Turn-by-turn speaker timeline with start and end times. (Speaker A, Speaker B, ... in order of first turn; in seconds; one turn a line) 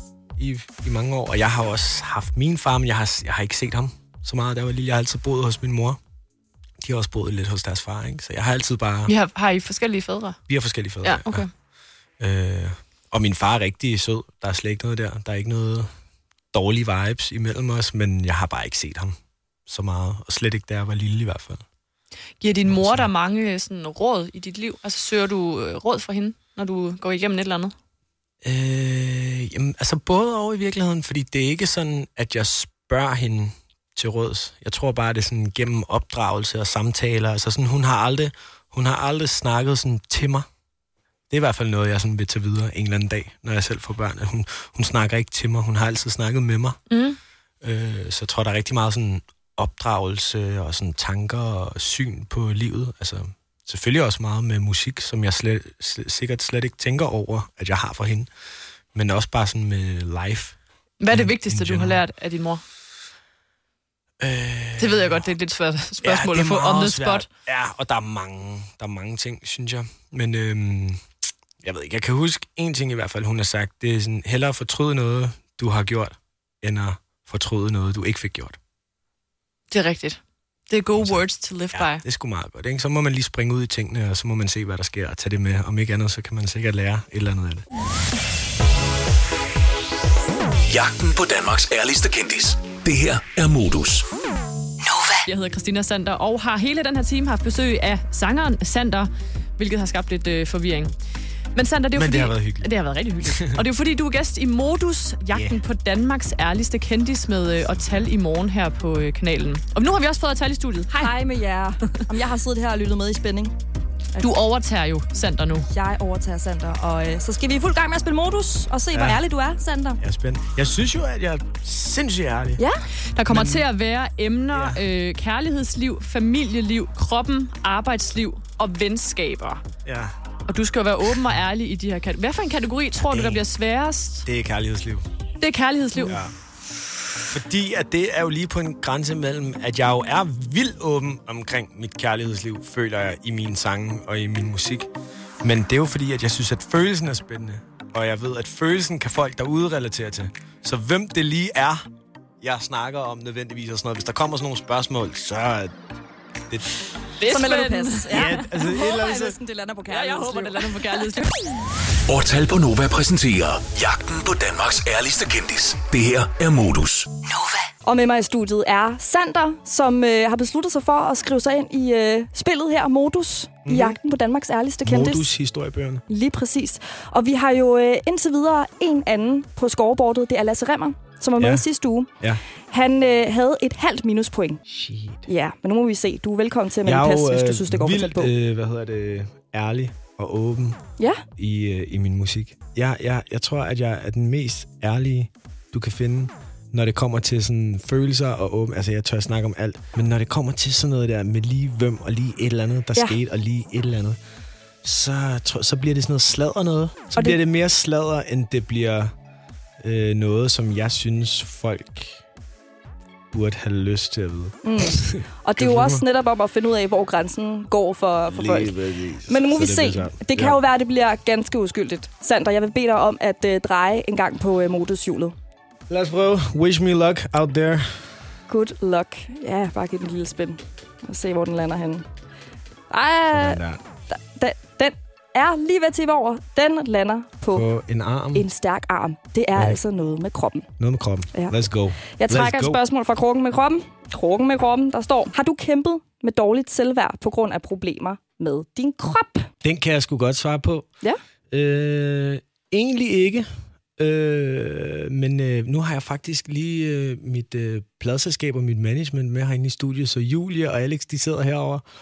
Speaker A: 0.4-6.0
Speaker A: 6.8-9.2
Speaker B: 9.1-10.4
Speaker A: 10.5-11.5
Speaker B: 11.0-11.5
Speaker A: 12.2-15.9
Speaker A: 16.5-21.6
Speaker B: 22.4-27.7
Speaker A: 22.7-23.1
Speaker A: 28.4-40.5
Speaker A: 41.3-46.8
Speaker B: 46.9-47.2
Speaker A: 47.6-58.3
Speaker A: 58.9-60.6
Speaker B: 61.0-62.6
Speaker A: 61.1-62.0
Speaker A: 64.2-65.3
Speaker B: 64.8-67.3
Speaker A: 66.0-71.0
Speaker A: 71.6-78.6
Speaker B: 79.7-82.0
Speaker A: 81.0-87.7
Speaker C: 90.7-94.1
Speaker B: 95.1-100.9
Speaker B: 101.5-111.1
Speaker A: 102.0-102.7
Speaker A: 103.2-103.6
Speaker A: 105.3-105.6
Speaker D: 110.9-113.5
Speaker B: 114.2-115.7
Speaker D: 115.7-120.0
Speaker A: 118.9-119.2
Speaker A: 120.0-122.6
Speaker D: 122.6-122.8
Speaker B: 123.1-129.6
Speaker A: 123.3-123.7
Speaker A: 124.5-124.8
Speaker A: 129.8-130.1
Speaker B: 130.5-134.3
Speaker A: 133.0-133.4
Speaker A: 134.2-135.1
Speaker B: 135.4-136.2
Speaker A: 136.1-136.3
Speaker A: 137.3-144.9
Speaker A: 145.4-151.9
Speaker A: 152.4-155.8
Speaker A: 156.5-156.8
Speaker B: 157.2-158.4
Speaker D: 157.2-161.2
Speaker A: 158.1-159.4
Speaker B: 159.9-161.4
Speaker C: 162.1-167.1
Speaker D: 167.8-175.3
Speaker A: 173.7-174.0
Speaker A: 174.8-176.1
Speaker D: 176.1-182.1
Speaker A: 181.4-181.7
Speaker D: 182.7-184.6
Speaker A: 184.7-185.3
Speaker D: 185.3-188.3
Speaker A: 186.8-190.8
Speaker D: 191.0-191.2
Speaker A: 191.4-204.2
Speaker A: 204.8-209.1
Speaker D: 207.2-207.4
Speaker A: 209.8-212.2
Speaker A: 213.3-216.1
Speaker D: 214.6-225.3
Speaker A: 218.3-220.6
Speaker A: 225.9-228.3
Speaker D: 228.5-232.1
Speaker D: 232.9-237.7
Speaker A: 233.3-233.8
Speaker A: 237.5-238.5
Speaker D: 238.3-240.7
Speaker A: 239.6-239.8
Speaker A: 240.8-242.8
Speaker D: 241.3-249.5
Speaker A: 249.6-250.9
Speaker A: 251.5-261.9